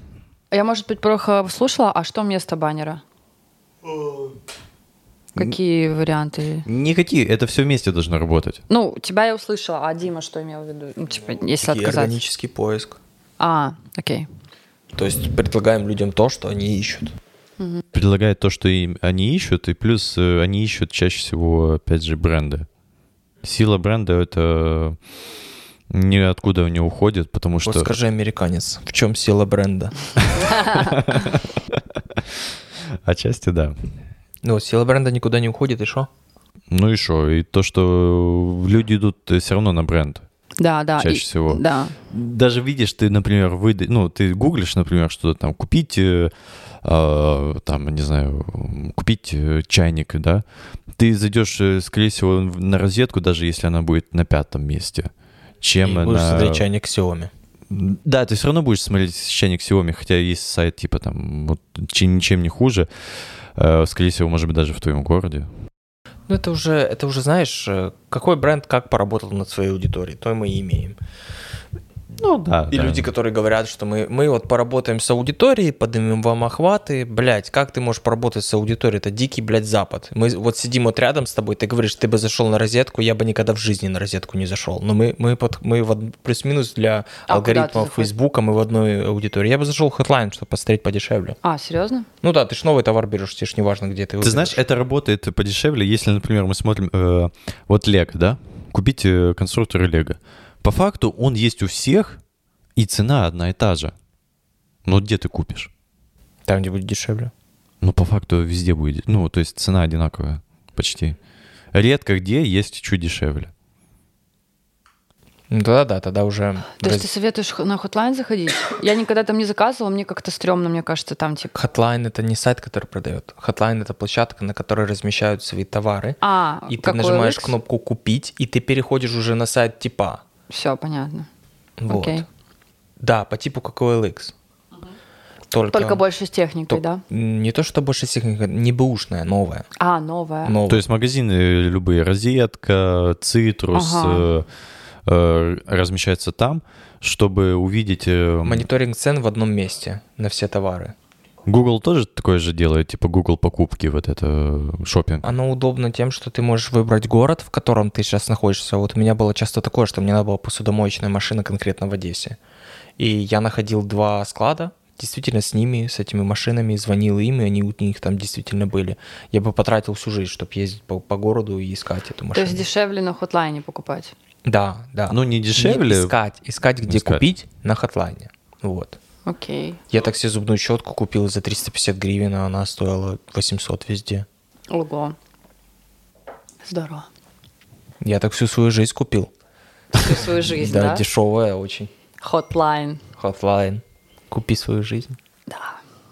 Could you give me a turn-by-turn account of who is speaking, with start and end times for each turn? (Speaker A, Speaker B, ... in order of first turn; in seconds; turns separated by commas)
Speaker A: 0.5-3.0, Speaker A: 5.4-6.7, Speaker B: 6.7-8.6, Speaker A: 8.7-12.2, Speaker C: 11.6-13.0, Speaker A: 13.4-14.3, Speaker C: 14.9-17.1, Speaker A: 17.6-17.8, Speaker B: 17.9-22.7, Speaker B: 23.4-25.0, Speaker B: 25.9-27.9, Speaker C: 27.6-29.9, Speaker B: 30.3-32.2, Speaker B: 33.0-33.8, Speaker C: 34.4-36.1, Speaker B: 36.7-40.3, Speaker A: 40.6-42.0, Speaker B: 41.0-46.3, Speaker B: 46.8-50.4, Speaker B: 51.0-55.1, Speaker B: 55.6-56.7, Speaker C: 55.8-57.3, Speaker B: 57.7-62.9, Speaker B: 63.6-65.5, Speaker C: 66.3-71.0, Speaker B: 72.2-73.1, Speaker C: 72.7-91.4, Speaker A: 87.3-88.1, Speaker A: 91.4-92.1, Speaker C: 92.2-94.6, Speaker B: 94.2-102.2, Speaker B: 102.8-103.9, Speaker B: 104.8-105.7, Speaker C: 106.5-107.3, Speaker B: 107.8-111.2, Speaker B: 111.7-113.5, Speaker C: 115.5-117.1, Speaker A: 116.8-121.5, Speaker C: 121.5-130.2, Speaker A: 126.2-127.6, Speaker A: 130.5-131.3, Speaker C: 131.8-132.2, Speaker A: 131.9-132.2, Speaker C: 133.0-134.3, Speaker C: 135.5-136.0, Speaker A: 135.7-137.0, Speaker C: 136.7-139.7, Speaker A: 139.8-140.6, Speaker C: 140.4-140.8, Speaker B: 140.7-144.5, Speaker A: 143.7-144.3, Speaker B: 145.1-148.7, Speaker C: 148.4-150.9, Speaker B: 151.5-155.3, Speaker C: 155.2-162.4, Speaker C: 163.0-172.7, Speaker A: 172.3-174.1, Speaker C: 174.5-179.0, Speaker B: 175.1-176.2, Speaker B: 176.9-177.2, Speaker A: 179.3-179.8, Speaker C: 179.9-184.3, Speaker A: 184.7-185.2, Speaker A: 186.7-187.1, Speaker C: 188.0-189.3, Speaker A: 189.9-191.0, Speaker C: 190.4-191.9, Speaker A: 192.2-193.0, Speaker C: 193.2-195.2, Speaker A: 195.5-195.8